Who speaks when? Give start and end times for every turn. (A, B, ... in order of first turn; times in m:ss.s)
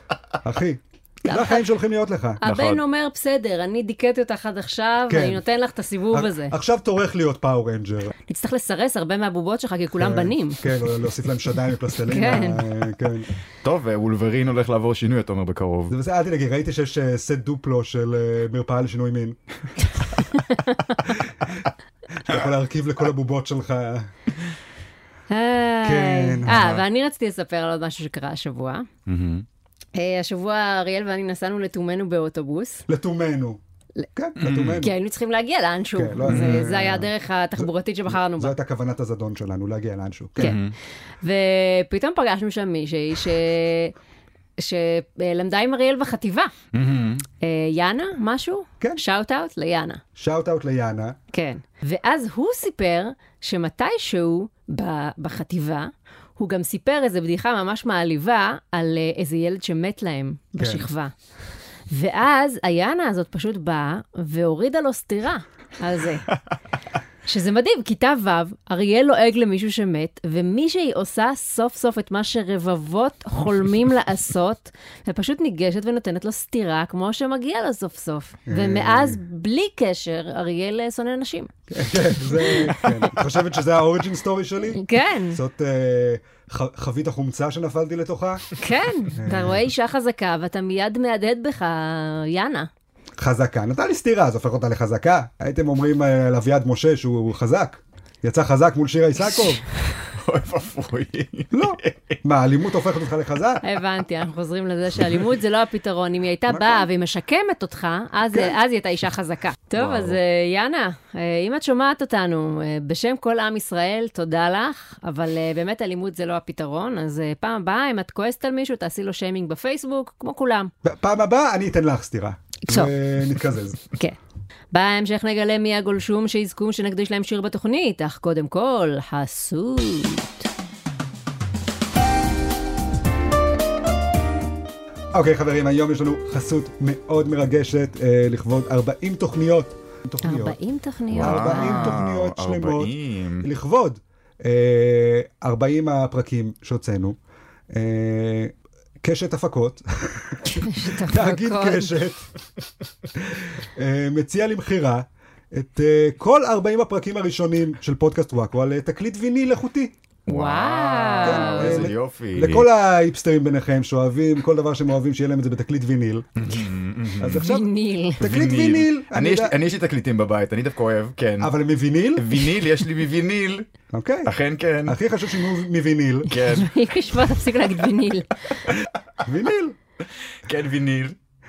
0:00.4-0:02.4 A
0:01.2-0:01.7 B
0:02.4-0:06.5 B
0:02.4-0:02.8 C
0:05.1-0:05.4 A
0:06.1-0:08.1 A
0:08.3-0:10.8 B
0:10.0-0:13.3 A
0:12.1-0:12.6 B
0:13.6-0:15.9 C
0:15.9-0:19.4 A
0:20.0-0:21.0 B
0:21.1-0:24.1 A
0:25.3-0:28.9 B
0:25.8-0:26.6 A
0:26.5-0:26.8 C
0:29.1-0:29.5 C
0:30.0-0:32.9 B
0:32.9-0:33.6 A
0:34.2-0:34.9 A
0:34.4-0:34.9 C
0:34.8-0:38.6 B
0:36.0-0:40.6 A
0:36.2-0:36.7 C
0:40.4-0:40.8 C
0:41.2-0:44.0 B
0:44.6-0:46.5 B
0:46.7-0:47.2 C
0:47.4-0:50.0 B
0:50.2-0:51.2 A
0:51.3-1:01.1 B
1:00.6-1:00.9 A
1:01.9-1:06.3 B
1:07.3-1:21.5 B
1:18.5-1:19.2 A
1:21.7-1:28.5 A
1:22.2-1:23.2 B
1:24.7-1:25.4 B
1:28.6-1:32.7 B
1:29.1-1:29.6 A
1:33.2-1:39.6 A
1:40.1-1:42.2 C
1:41.5-1:43.6 A
1:43.6-2:00.7 B
1:46.5-1:46.9 A
1:49.8-1:50.2 C
2:00.8-2:03.8 A
2:02.7-2:02.9 B
2:04.7-2:10.5 B
2:15.1-2:20.6 A
2:20.2-2:22.0 B
2:21.1-2:23.5 C
2:21.2-2:27.2 A
2:27.7-2:32.3 A
2:30.4-2:31.9 B
2:33.2-2:39.9 A
2:40.3-2:41.9 B
2:40.3-2:42.7 C
2:41.2-2:46.3 A
2:46.4-2:47.5 C
2:47.2-2:47.7 A
2:47.4-2:48.2 B
2:48.2-2:49.6 A
2:48.2-2:51.5 C
2:51.4-2:52.5 A
2:52.2-2:53.7 C
2:53.9-2:54.3 A
2:54.3-2:55.0 C
2:54.9-2:56.3 A
2:56.3-2:57.2 C
2:56.4-2:58.6 B
2:59.2-2:59.8 A
3:00.4-3:01.2 C